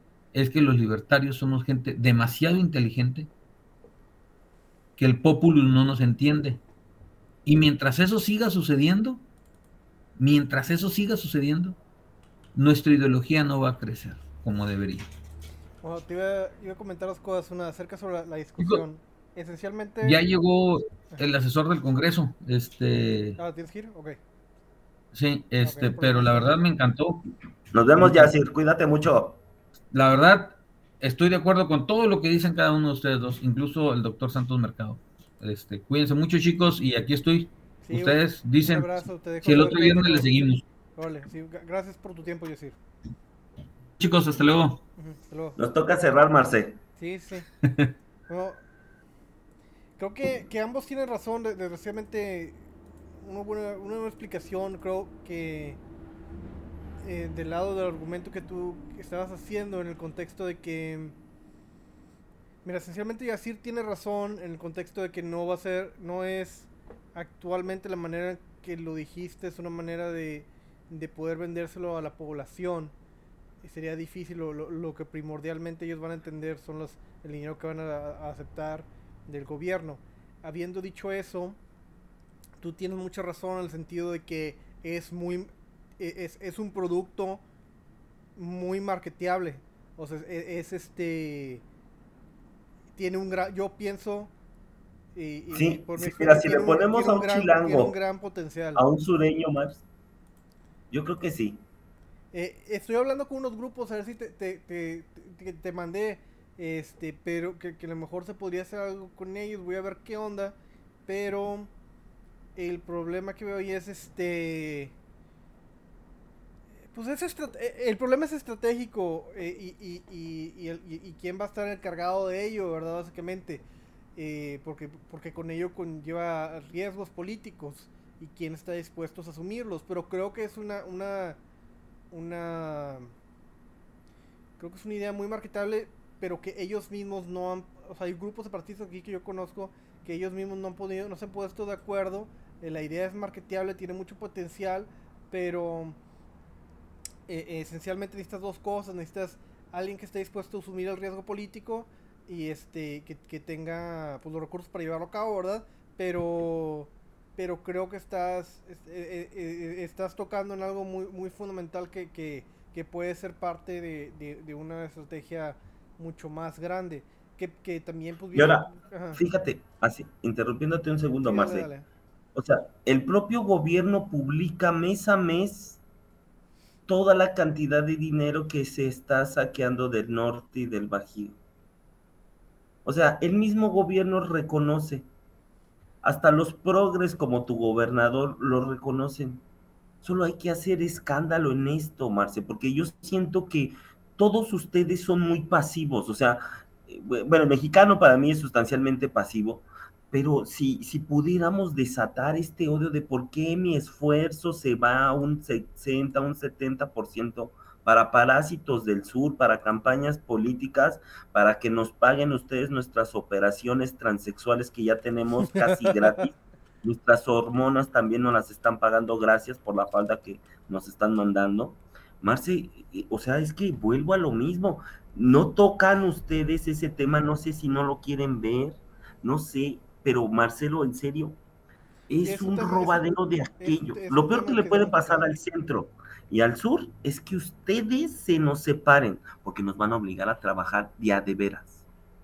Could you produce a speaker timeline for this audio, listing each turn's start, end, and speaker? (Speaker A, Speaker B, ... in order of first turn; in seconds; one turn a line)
Speaker A: 0.3-3.3
Speaker A: 5.0-6.6
Speaker A: 7.5-9.2
Speaker A: 10.2-11.8
Speaker A: 12.5-15.1
Speaker B: 15.8-20.2
Speaker A: 18.6-18.8
Speaker A: 20.0-23.4
Speaker B: 23.4-24.2
Speaker A: 25.1-27.2
Speaker B: 25.6-26.6
Speaker C: 27.7-29.4
Speaker A: 28.0-28.3
Speaker A: 29.9-40.6
Speaker B: 37.8-40.3
Speaker B: 41.0-42.8
Speaker A: 44.0-44.8
Speaker B: 45.0-45.6
Speaker C: 45.6-46.8
Speaker B: 47.0-47.5
Speaker A: 47.6-47.9
Speaker B: 48.3-48.6
Speaker B: 50.0-52.6
Speaker B: 53.2-55.8
Speaker B: 57.0-61.1
Speaker B: 62.6-72.9
Speaker B: 73.6-81.6
Speaker B: 82.6-87.4
Speaker B: 88.3-91.6
Speaker B: 92.9-94.3
Speaker B: 95.1-98.8
Speaker C: 95.5-97.9
Speaker C: 98.7-99.8
Speaker C: 100.9-101.6
Speaker B: 102.3-111.7
Speaker B: 112.5-114.9
Speaker B: 116.9-123.6
Speaker B: 124.2-131.4
Speaker B: 132.1-133.1
Speaker B: 134.6-146.0
Speaker B: 147.3-169.2
Speaker C: 168.3-171.7
Speaker B: 171.2-171.8
Speaker C: 172.3-175.8
Speaker C: 176.9-181.4
Speaker C: 182.8-185.1
Speaker C: 186.0-189.4
Speaker C: 190.0-231.4
Speaker B: 215.5-216.0
Speaker C: 232.1-241.8
Speaker B: 232.2-235.3